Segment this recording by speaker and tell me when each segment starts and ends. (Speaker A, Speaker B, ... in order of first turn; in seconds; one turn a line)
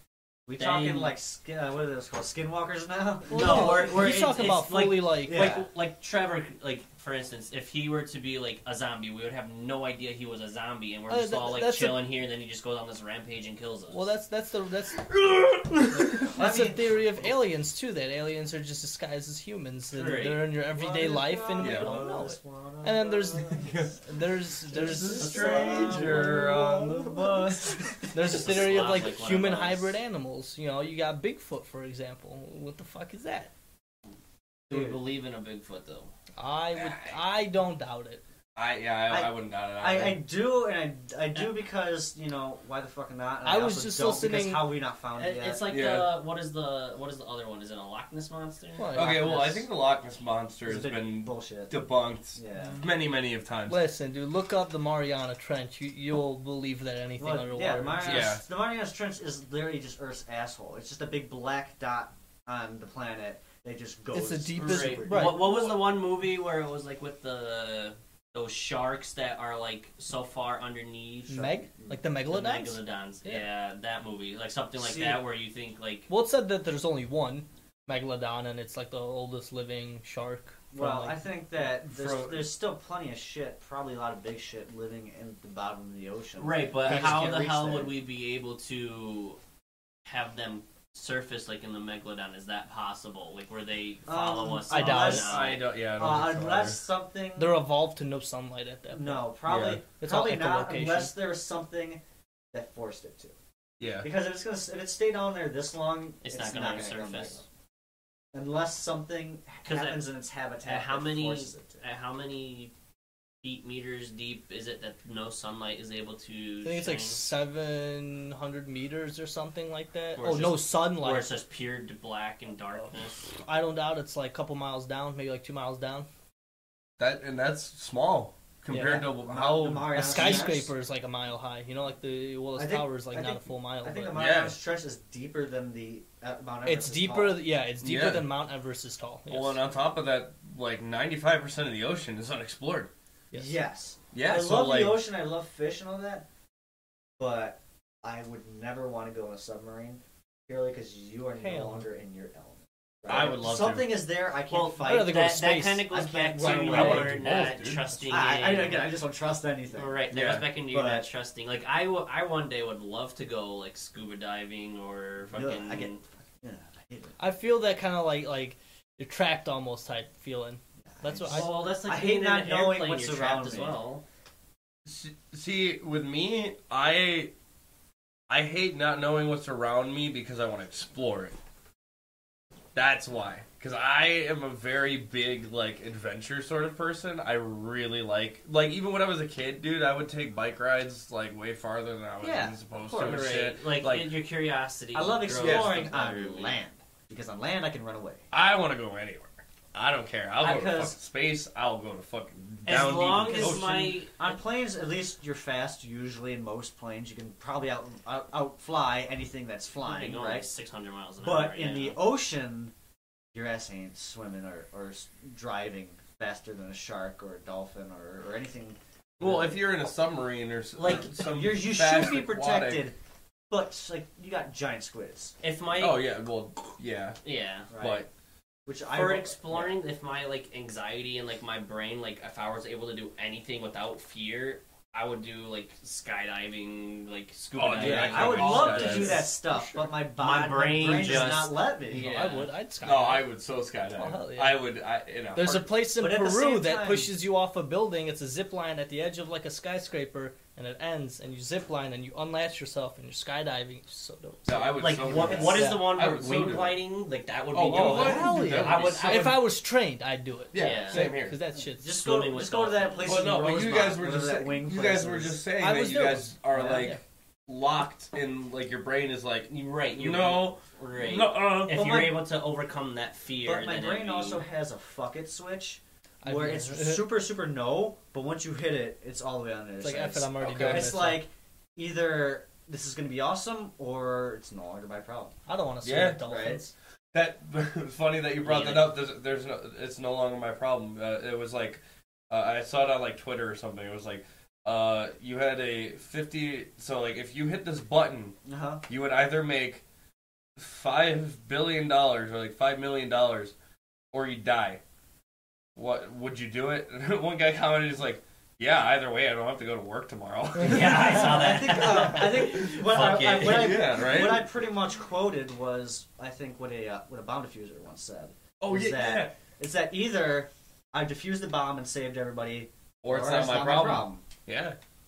Speaker A: 0.5-4.1
Speaker B: 0.5-1.1
Speaker B: 3.3-14.1
Speaker C: 3.3-5.6
Speaker A: 5.2-5.7
Speaker C: 11.1-12.0
Speaker C: 13.9-15.1
Speaker D: 15.1-16.2
Speaker C: 15.9-25.7
Speaker A: 16.1-17.3
Speaker B: 19.9-20.6
Speaker A: 20.7-23.9
Speaker D: 21.6-22.0
Speaker D: 23.6-23.9
Speaker D: 24.7-28.0
Speaker A: 24.7-28.1
Speaker B: 25.4-26.2
Speaker C: 28.1-33.5
Speaker B: 28.1-29.9
Speaker B: 34.7-36.1
Speaker A: 34.7-35.0
Speaker C: 36.4-38.2
Speaker D: 36.7-37.1
Speaker D: 38.5-40.2
Speaker A: 39.1-45.6
Speaker C: 43.4-44.8
Speaker B: 45.2-48.9
Speaker D: 45.7-46.2
Speaker C: 48.8-49.6
Speaker D: 48.9-53.8
Speaker A: 49.0-49.6
Speaker A: 50.6-51.8
Speaker A: 52.3-52.8
Speaker C: 53.7-58.3
Speaker A: 57.2-65.7
Speaker D: 58.0-58.4
Speaker C: 64.1-65.7
Speaker B: 64.5-71.4
Speaker A: 71.3-72.0
Speaker C: 71.3-73.5
Speaker B: 72.3-76.1
Speaker A: 74.8-75.2
Speaker C: 76.1-81.2
Speaker A: 80.7-87.9
Speaker D: 81.9-82.5
Speaker B: 86.4-89.4
Speaker B: 90.0-95.7
Speaker A: 94.1-97.5
Speaker C: 94.7-95.4
Speaker D: 95.2-96.8
Speaker C: 97.3-99.3
Speaker A: 98.9-102.0
Speaker D: 99.5-99.8
Speaker C: 100.0-101.1
Speaker A: 102.5-103.3
Speaker D: 103.8-104.1
Speaker A: 104.0-107.4
Speaker B: 106.2-107.4
Speaker A: 108.3-111.8
Speaker B: 109.6-110.1
Speaker B: 110.6-112.7
Speaker B: 113.4-117.2
Speaker C: 116.6-121.3
Speaker B: 120.2-123.3
Speaker C: 123.4-126.1
Speaker D: 127.0-130.6
Speaker C: 128.7-129.1
Speaker A: 128.8-130.7
Speaker C: 129.9-134.2
Speaker A: 132.6-137.4
Speaker D: 134.1-134.6
Speaker C: 136.6-139.6
Speaker D: 137.8-138.3
Speaker D: 139.3-142.9
Speaker A: 143.3-146.2
Speaker D: 144.1-145.0
Speaker A: 147.2-157.2
Speaker C: 151.3-151.9
Speaker D: 153.1-154.0
Speaker B: 154.5-159.0
Speaker C: 154.8-155.9
Speaker D: 156.4-158.6
Speaker C: 156.4-157.1
Speaker A: 158.1-160.0
Speaker B: 159.7-166.0
Speaker D: 160.1-160.5
Speaker A: 160.6-161.1
Speaker A: 165.3-167.2
Speaker C: 167.2-171.6
Speaker A: 170.8-173.8
Speaker B: 171.3-174.0
Speaker D: 174.8-177.3
Speaker D: 178.3-181.4
Speaker D: 182.7-194.2
Speaker A: 192.2-193.4
Speaker B: 192.9-196.6
Speaker A: 194.9-198.2
Speaker D: 195.4-195.8
Speaker D: 198.3-203.9
Speaker A: 200.4-200.9
Speaker B: 202.7-204.4
Speaker A: 203.1-210.4
Speaker B: 209.8-212.0
Speaker A: 211.2-212.7
Speaker A: 213.3-219.6
Speaker D: 219.2-222.8
Speaker B: 220.8-221.1
Speaker A: 220.8-222.9
Speaker A: 223.5-225.3
Speaker B: 225.4-226.0
Speaker D: 225.7-227.2
Speaker B: 227.2-227.7
Speaker A: 227.7-228.1
Speaker D: 227.8-228.1
Speaker A: 228.7-229.8
Speaker B: 228.9-242.5
Speaker D: 237.5-239.3
Speaker A: 237.7-242.1
Speaker C: 241.9-243.3
Speaker D: 242.8-245.7
Speaker C: 243.9-244.6
Speaker C: 245.3-255.9
Speaker A: 245.9-247.1
Speaker D: 254.4-256.8
Speaker B: 254.8-259.4
Speaker A: 255.1-255.5
Speaker D: 257.5-259.4
Speaker C: 257.7-261.9
Speaker D: 260.5-261.3
Speaker B: 260.5-261.1
Speaker A: 261.7-265.4
Speaker B: 262.0-263.2
Speaker D: 263.0-271.8
Speaker C: 265.6-267.0
Speaker A: 266.5-266.9
Speaker B: 269.5-274.4
Speaker A: 271.7-272.2
Speaker A: 273.4-285.3
Speaker C: 276.2-277.2
Speaker C: 279.8-281.2
Speaker D: 280.4-280.9
Speaker C: 285.5-286.7
Speaker D: 285.8-286.2
Speaker A: 286.2-286.7
Speaker D: 287.1-299.8
Speaker B: 288.4-288.9
Speaker A: 298.4-298.8
Speaker D: 300.6-303.5
Speaker D: 304.1-304.8
Speaker D: 305.8-312.1
Speaker B: 310.6-313.9
Speaker C: 310.6-311.0
Speaker A: 311.1-324.2
Speaker D: 312.9-314.4
Speaker D: 318.6-319.4
Speaker D: 323.0-324.8